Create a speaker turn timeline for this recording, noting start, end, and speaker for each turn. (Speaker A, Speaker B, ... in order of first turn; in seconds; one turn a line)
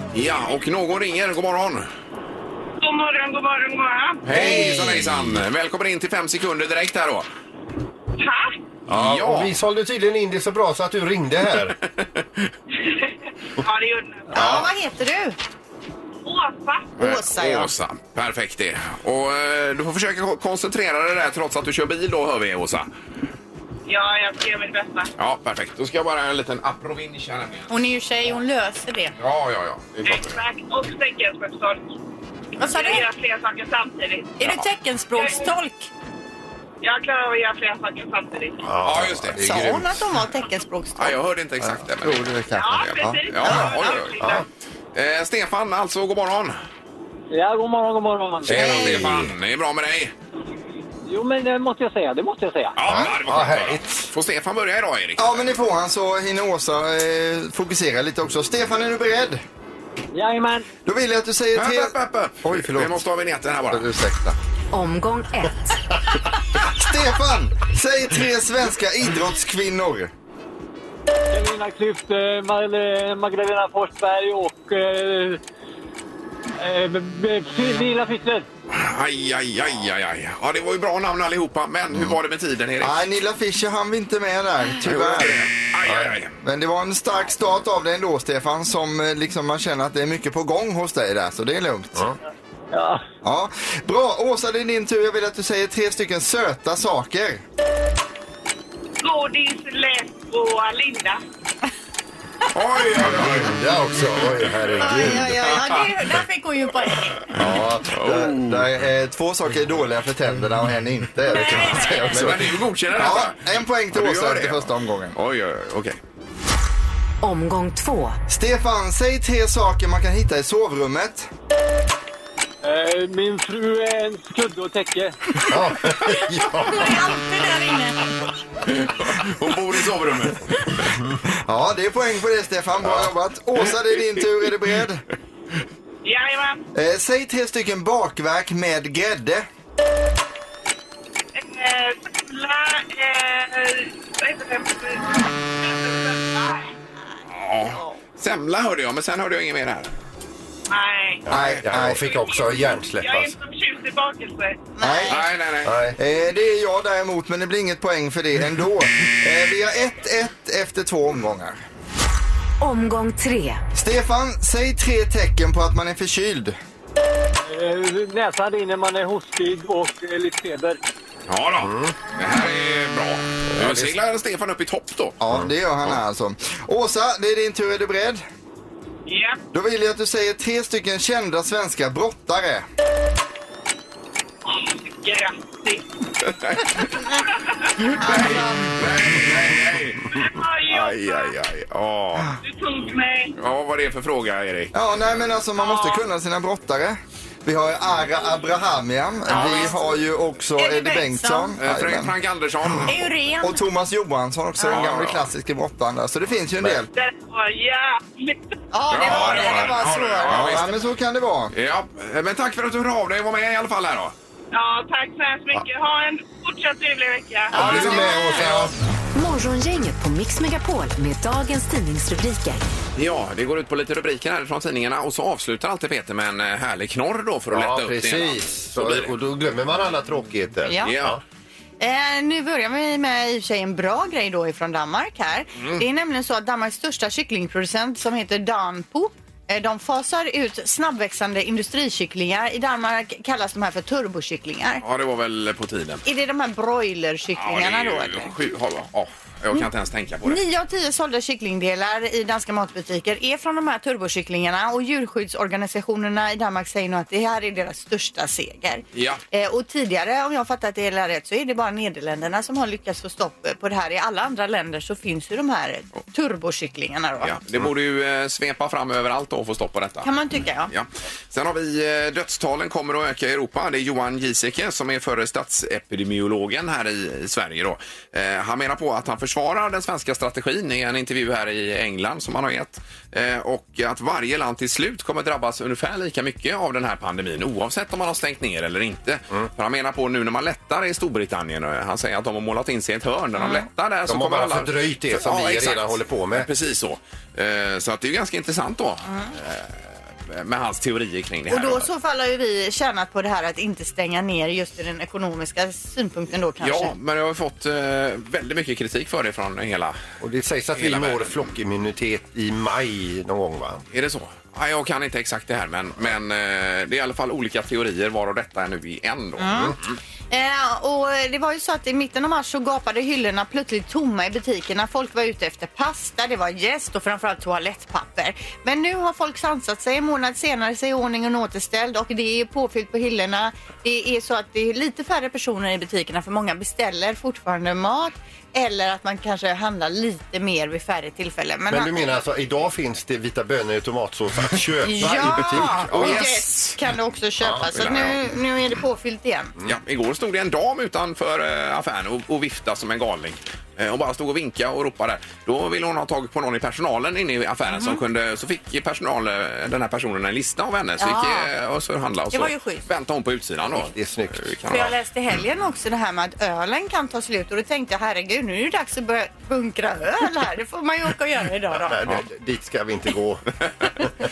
Speaker A: 0.1-1.9
Speaker B: 2.8-4.2
Speaker A: 4.2-7.2
Speaker C: 4.3-5.4
Speaker B: 8.2-8.5
Speaker C: 8.9-11.8
Speaker A: 8.9-9.6
Speaker A: 11.9-12.5
Speaker B: 12.8-14.4
Speaker D: 14.3-15.3
Speaker A: 14.3-14.7
Speaker B: 16.2-16.9
Speaker D: 17.0-17.7
Speaker A: 17.0-22.9
Speaker B: 23.9-25.1
Speaker A: 25.2-27.7
Speaker D: 27.7-29.1
Speaker A: 29.2-30.3
Speaker B: 30.0-31.9
Speaker D: 32.6-33.0
Speaker B: 32.6-34.4
Speaker D: 34.4-35.9
Speaker B: 35.2-35.4
Speaker B: 36.8-38.6
Speaker C: 38.6-40.0
Speaker A: 38.8-39.8
Speaker D: 39.4-41.2
Speaker A: 41.0-44.4
Speaker C: 41.6-42.6
Speaker B: 42.5-44.4
Speaker D: 43.4-44.0
Speaker A: 44.9-46.5
Speaker E: 47.3-48.7
Speaker C: 48.5-49.3
Speaker A: 48.5-50.1
Speaker E: 51.0-52.7
Speaker A: 52.8-55.5
Speaker C: 52.8-54.1
Speaker F: 55.2-59.4
Speaker E: 60.1-60.7
Speaker F: 60.9-61.9
Speaker A: 61.5-63.9
Speaker C: 62.5-63.0
Speaker G: 64.7-65.9
Speaker F: 66.5-70.1
Speaker E: 71.3-75.4
Speaker E: 76.6-78.5
Speaker A: 78.7-83.0
Speaker F: 82.8-85.4
Speaker A: 84.8-86.4
Speaker C: 85.8-86.2
Speaker F: 86.4-92.0
Speaker E: 92.7-93.0
Speaker F: 93.2-97.4
Speaker B: 99.0-101.2
Speaker A: 102.5-105.9
Speaker C: 103.0-105.3
Speaker D: 104.8-107.3
Speaker C: 107.3-108.6
Speaker F: 107.5-112.3
Speaker A: 107.9-108.3
Speaker D: 111.3-111.9
Speaker A: 111.4-116.0
Speaker C: 111.6-112.6
Speaker F: 112.9-115.1
Speaker G: 117.2-118.2
Speaker F: 118.3-121.3
Speaker E: 122.6-125.2
Speaker C: 125.5-127.1
Speaker D: 126.6-128.0
Speaker A: 128.6-131.0
Speaker F: 131.5-135.0
Speaker C: 132.8-133.1
Speaker B: 136.0-136.6
Speaker F: 136.7-139.5
Speaker B: 141.3-146.7
Speaker A: 147.3-149.9
Speaker D: 147.6-147.9
Speaker B: 150.7-151.3
Speaker C: 151.2-153.3
Speaker F: 151.3-152.1
Speaker B: 152.0-154.6
Speaker D: 154.7-155.2
Speaker F: 154.8-155.2
Speaker A: 155.1-155.8
Speaker C: 155.6-156.0
Speaker F: 156.0-161.6
Speaker G: 162.6-163.6
Speaker F: 163.7-166.6
Speaker E: 167.4-170.8
Speaker A: 171.3-175.2
Speaker C: 171.6-171.9
Speaker C: 173.5-173.9
Speaker F: 175.2-178.2
Speaker B: 179.1-179.4
Speaker F: 179.5-182.6
Speaker B: 184.5-185.8
Speaker A: 186.3-186.8
Speaker B: 187.3-187.7
Speaker A: 187.9-190.1
Speaker D: 188.0-188.6
Speaker B: 190.1-191.3
Speaker A: 190.7-192.4
Speaker B: 192.4-193.3
Speaker A: 193.4-194.7
Speaker F: 194.7-202.1
Speaker B: 195.6-196.0
Speaker D: 199.3-199.9
Speaker A: 199.3-199.7
Speaker D: 200.6-201.6
Speaker A: 201.6-203.1
Speaker D: 202.9-203.6
Speaker F: 203.4-206.9
Speaker A: 204.7-205.3
Speaker B: 206.9-209.7
Speaker D: 208.7-210.7
Speaker A: 208.9-210.7
Speaker F: 210.3-211.5
Speaker A: 211.5-214.1
Speaker B: 214.5-218.5
Speaker D: 217.5-218.5
Speaker C: 217.5-218.7
Speaker G: 219.1-222.6
Speaker A: 222.9-229.1
Speaker C: 227.5-231.2
Speaker D: 230.7-230.9
Speaker A: 230.8-231.2
Speaker D: 231.8-244.8
Speaker A: 235.6-235.8
Speaker A: 244.8-246.0
Speaker D: 246.0-248.3
Speaker A: 247.3-250.4
Speaker D: 250.2-267.4
Speaker A: 258.9-259.2
Speaker A: 267.2-270.1
Speaker D: 270.0-270.7
Speaker A: 270.7-301.9
Speaker D: 293.4-293.6
Speaker C: 294.1-296.5
Speaker D: 301.5-306.9
Speaker A: 306.6-310.0
Speaker C: 310.2-313.8
Speaker A: 310.7-311.5
Speaker A: 313.9-320.0
Speaker D: 319.4-319.8
Speaker D: 320.3-341.9
Speaker C: 341.7-346.2
Speaker D: 344.8-349.5
Speaker A: 345.4-346.8
Speaker A: 347.7-348.2
Speaker A: 349.6-364.9
Speaker D: 357.7-358.0
Speaker D: 361.0-361.5
Speaker D: 362.3-362.8
Speaker C: 363.7-364.5
Speaker D: 364.7-372.0
Speaker C: 371.7-373.4
Speaker A: 373.6-373.9